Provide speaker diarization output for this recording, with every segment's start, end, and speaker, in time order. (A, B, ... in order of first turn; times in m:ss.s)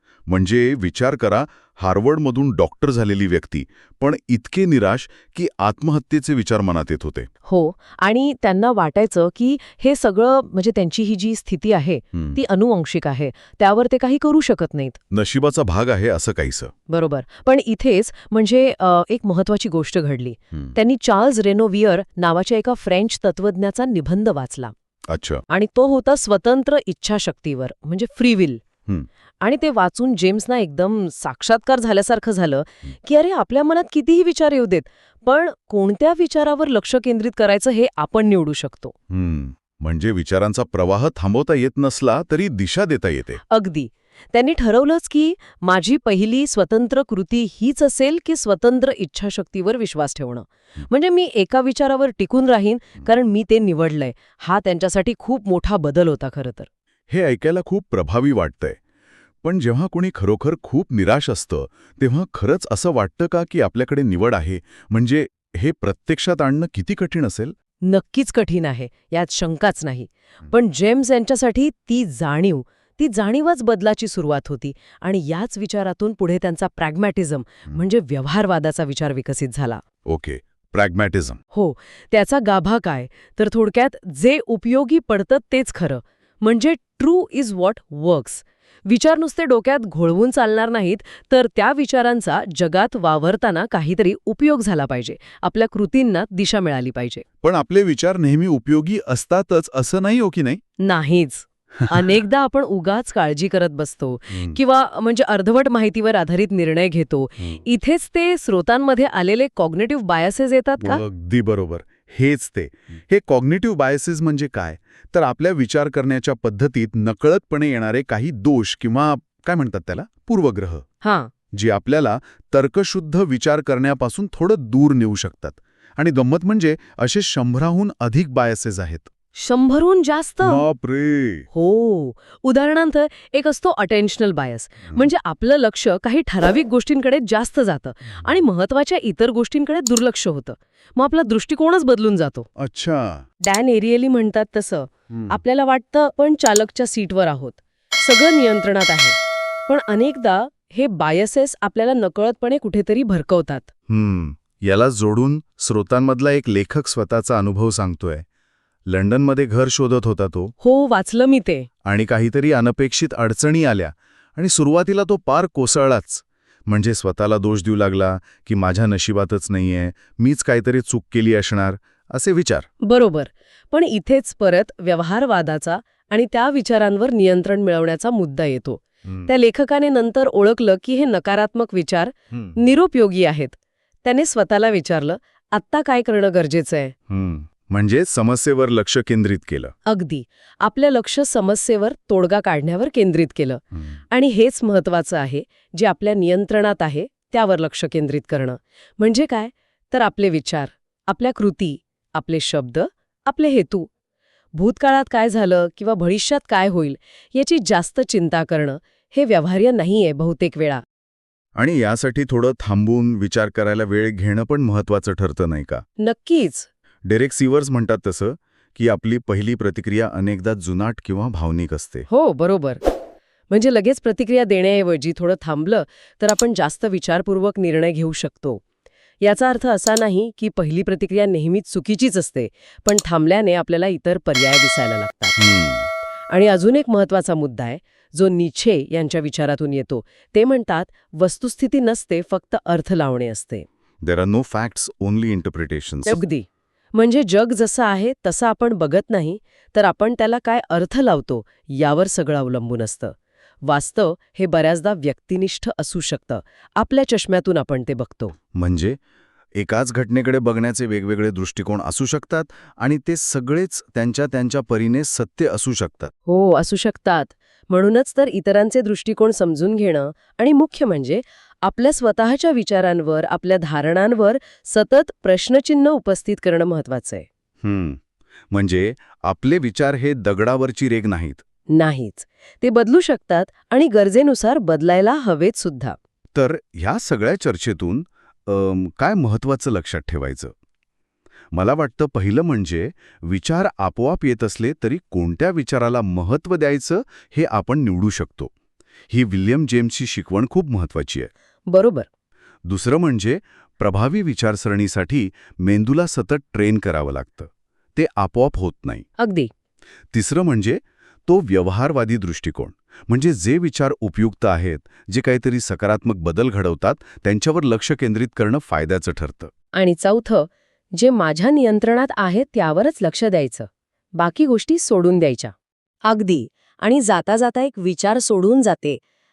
0:00.3-0:07.3 A
0:07.4-0:15.0 B
0:15.1-0:16.7 A
0:16.9-0:24.7 B
0:25.1-0:25.4 A
0:25.5-0:28.6 B
0:29.4-0:38.9 B
0:39.1-0:43.4 A
0:43.5-0:56.7 B
0:57.1-0:58.8 A
0:59.4-1:07.5 A
1:07.8-1:19.8 B
1:20.0-1:21.4 A
1:21.5-1:37.2 B
1:37.4-1:40.6 A
1:40.8-1:51.0 B
1:44.3-1:44.6 A
1:50.8-2:00.8 A
2:01.0-2:01.3 B
2:01.5-2:09.1 A
2:09.3-2:10.6 B
2:10.4-2:11.5 A
2:11.5-2:22.5 B
2:22.6-2:23.2 A
2:23.4-2:33.7 B
2:25.1-2:25.4 A
2:33.9-2:38.2 A
2:38.9-2:40.5 A
2:40.6-2:41.7 B
2:41.8-2:52.7 A
2:52.8-3:06.9 B
3:07.1-3:09.7 A
3:09.8-3:23.9 B
3:24.6-3:30.8 B
3:31.6-3:35.8 A
3:36.0-3:36.7 B
3:37.0-3:42.1 A
3:42.1-3:42.8 B
3:43.5-3:48.6 B
3:49.2-3:55.4 B
3:55.4-3:55.9 A
3:56.3-4:03.7 B
4:04.0-4:06.2 A
4:06.1-4:18.4 B
4:18.5-4:19.0 A
4:19.6-4:26.1 A
4:26.3-4:37.3 B
4:37.6-4:38.0 A
4:38.5-4:41.4 A
4:41.7-4:46.0 B
4:46.3-4:50.5 A
4:51.5-4:58.5 A
4:59.1-5:01.3 A
5:01.7-5:02.1 B
5:02.6-5:09.0 A
5:09.2-5:09.5 B
5:10.1-5:19.5 A
5:19.7-5:25.5 B
5:26.0-5:29.0 B